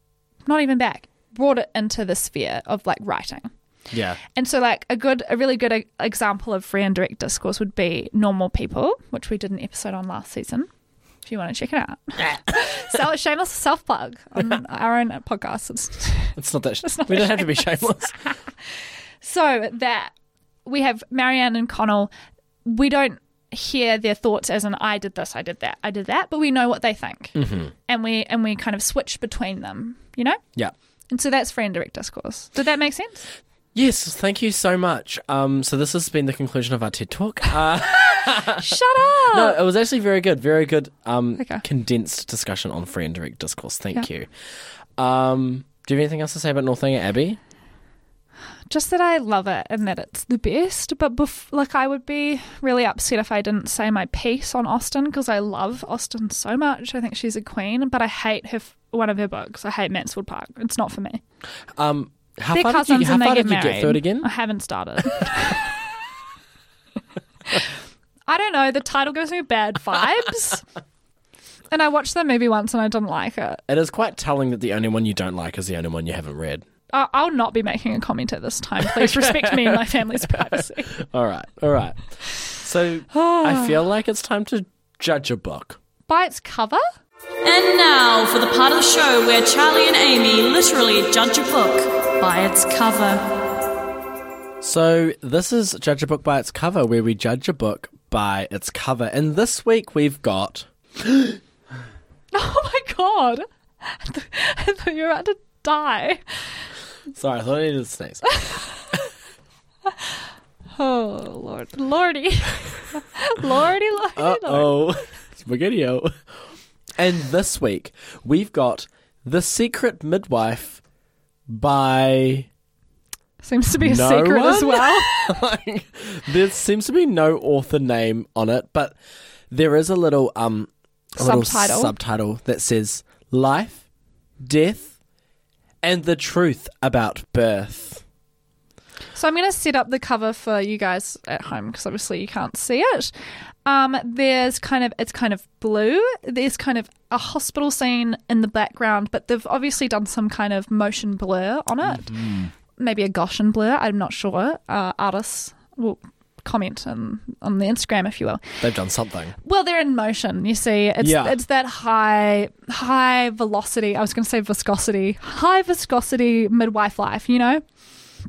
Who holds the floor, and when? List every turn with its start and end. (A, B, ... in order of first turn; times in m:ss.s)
0:00.4-0:03.5 A
0:03.9-0:04.2 B
0:04.3-0:10.7 A
0:11.2-0:18.5 A
0:16.4-0:18.2 B
0:19.2-0:20.1 A
0:20.6-0:22.1 A
0:22.6-0:27.4 A
0:27.3-0:27.7 B
0:27.9-0:30.4 A
0:31.1-0:33.3 A
0:33.7-0:38.8 B
0:38.1-0:39.6 A
0:39.3-0:44.3 B
0:45.0-0:47.4 B
0:48.7-1:01.2 A
1:01.8-1:04.3 B
1:02.5-1:05.6 A
1:08.3-1:10.6 A
1:11.7-1:13.6 A
1:13.7-1:16.6 B
1:16.9-1:20.9 A
1:18.8-1:25.8 B
1:23.1-1:23.8 A
1:26.1-1:26.8 A
1:27.4-1:33.2 C
1:34.6-1:41.4 B
1:42.3-1:46.2 A
1:47.1-1:48.2 B
1:48.3-1:48.6 A
1:50.8-1:54.8 A
1:54.2-1:56.1 B
1:57.0-2:00.8 B
2:01.5-2:02.5 B
2:03.4-2:05.3 A
2:03.8-2:08.9 B
2:09.5-2:13.8 B
2:11.2-2:11.9 A
2:14.4-2:14.9 B
2:15.8-2:18.0 B
2:19.1-2:23.1 A
2:23.6-2:38.4 A
2:31.8-2:32.5 B
2:38.6-2:39.3 B
2:39.4-2:47.6 A
2:41.0-2:41.4 B